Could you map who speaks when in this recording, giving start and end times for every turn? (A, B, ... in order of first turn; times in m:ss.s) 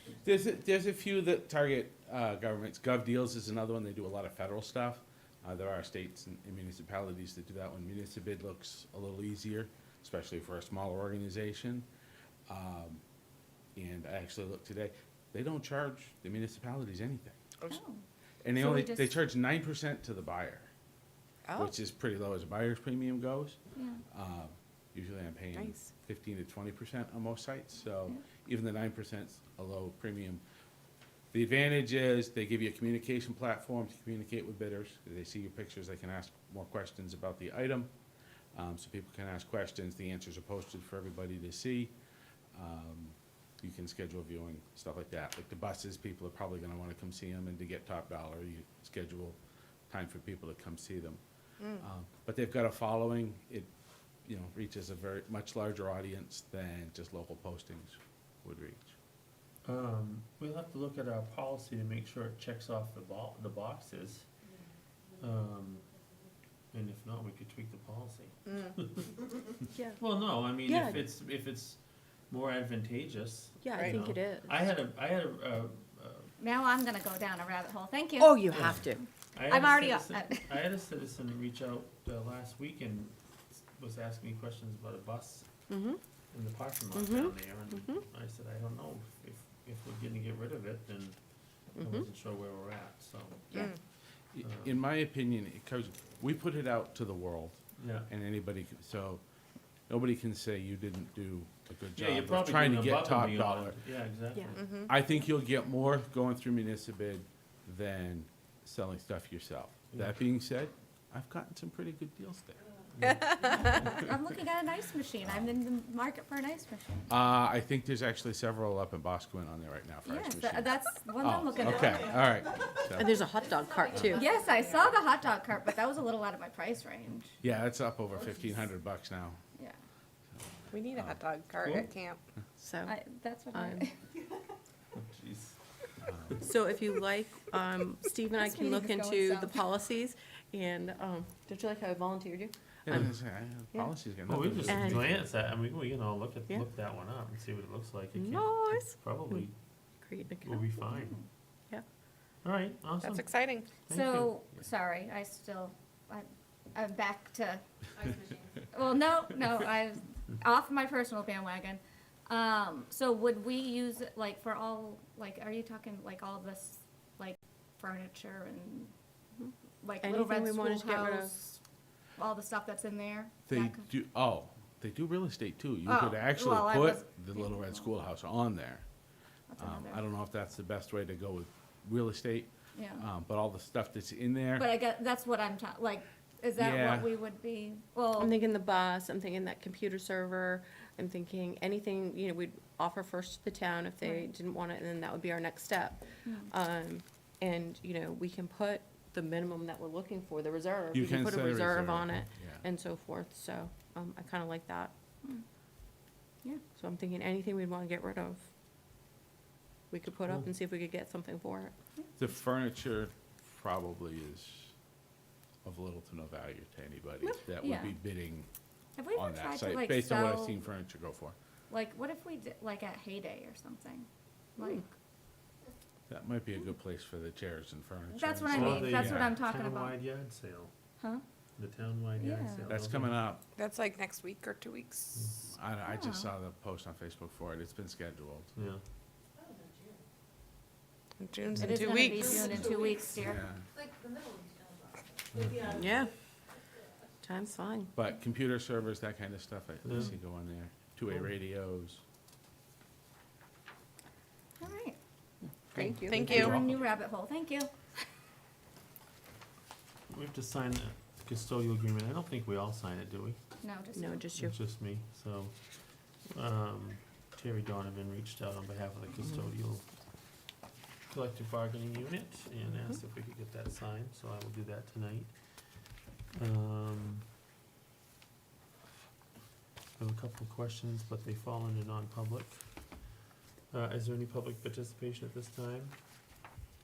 0:00.2-0:11.8 A
0:12.5-0:13.0 A
0:13.8-0:17.4 A
0:17.7-0:18.0 B
0:18.4-0:20.7 A
0:18.6-0:19.2 B
0:21.5-0:21.8 C
0:21.6-0:23.6 A
0:23.7-0:24.0 B
0:24.1-0:30.4 A
0:25.5-0:25.9 C
0:31.3-0:37.9 A
0:38.5-0:41.9 A
0:42.5-0:49.4 A
0:49.9-0:51.2 A
0:51.6-0:51.8 C
0:51.8-0:53.7 A
0:54.2-0:58.9 A
0:59.6-1:04.2 D
1:05.2-1:05.8 D
1:06.7-1:09.3 D
1:08.5-1:08.7 C
1:09.7-1:10.0 E
1:10.0-1:11.8 D
1:10.6-1:11.0 E
1:12.3-1:16.3 D
1:13.6-1:14.6 E
1:13.7-1:14.0 C
1:16.4-1:20.6 B
1:18.2-1:19.0 E
1:18.5-1:25.5 D
1:25.7-1:26.0 E
1:26.3-1:31.2 D
1:26.9-1:28.0 E
1:31.8-1:33.7 D
1:31.8-1:32.1 E
1:34.3-1:39.2 A
1:34.4-1:34.8 D
1:37.8-1:38.1 D
1:39.9-1:43.8 A
1:41.9-1:44.7 D
1:44.5-1:45.0 C
1:44.8-1:52.6 A
1:49.9-1:50.2 D
1:53.0-1:53.8 D
1:53.7-1:57.1 B
1:55.2-1:55.6 A
1:57.1-2:03.2 A
2:00.0-2:02.2 B
2:03.0-2:04.3 E
2:03.9-2:04.2 A
2:04.1-2:07.3 B
2:07.4-2:09.4 A
2:10.7-2:12.2 C
2:10.9-2:11.2 A
2:11.6-2:11.9 D
2:12.6-2:12.9 E
2:12.8-2:13.9 B
2:13.5-2:13.9 E
2:14.9-2:15.6 D
2:16.0-2:16.5 A
2:16.4-2:23.1 E
2:18.4-2:19.6 B
2:22.8-2:25.2 A
2:24.3-2:29.5 D
2:24.6-2:25.0 E
2:28.1-2:29.4 E
2:30.0-2:30.7 E
2:30.4-2:31.2 D
2:30.9-2:31.2 B
2:32.4-2:34.4 D
2:33.0-2:33.7 C
2:33.9-2:37.6 B
2:38.7-2:48.9 B
2:49.4-2:51.5 E
2:49.8-2:51.6 B
2:52.2-2:53.9 B
2:53.5-2:58.8 A
2:55.8-2:57.9 B
2:59.5-3:00.0 B
2:59.6-3:04.7 A
3:02.7-3:03.0 B
3:04.6-3:08.3 B
3:06.6-3:07.1 A
3:08.2-3:24.9 E
3:14.0-3:14.3 B
3:16.2-3:16.5 B
3:20.9-3:22.6 A
3:26.8-3:28.4 E
3:29.9-3:31.7 E
3:32.2-3:34.7 A
3:35.6-3:38.5 A
3:37.6-3:38.0 B
3:39.0-3:40.6 B
3:39.1-3:41.3 A
3:41.7-3:44.9 B
3:44.6-3:44.8 E
3:46.1-3:49.4 A
3:48.1-3:50.0 B
3:48.5-3:50.7 D
3:51.6-3:53.2 D
3:52.2-3:52.7 B
3:52.7-3:53.4 A
3:53.6-3:55.3 C
3:55.5-3:58.5 A
3:55.9-3:56.3 B
3:58.6-3:58.8 D
4:01.2-4:02.3 C
4:01.5-4:01.8 D
4:01.6-4:03.4 B
4:03.2-4:03.6 A
4:05.3-4:05.7 D
4:05.7-4:06.1 E
4:07.2-4:07.9 E
4:07.9-4:12.0 A
4:09.8-4:10.2 D
4:14.6-4:15.0 B
4:15.7-4:16.3 E
4:15.7-4:16.8 A
4:15.8-4:16.5 D
4:16.0-4:16.6 C
4:16.1-4:17.7 B
4:20.1-4:23.4 D
4:23.6-4:24.3 B
4:24.0-4:24.5 E
4:24.3-4:25.5 D
4:26.3-4:29.8 D
4:31.1-4:35.3 D
4:36.3-4:37.2 D
4:40.0-4:42.6 D
4:43.7-4:45.9 D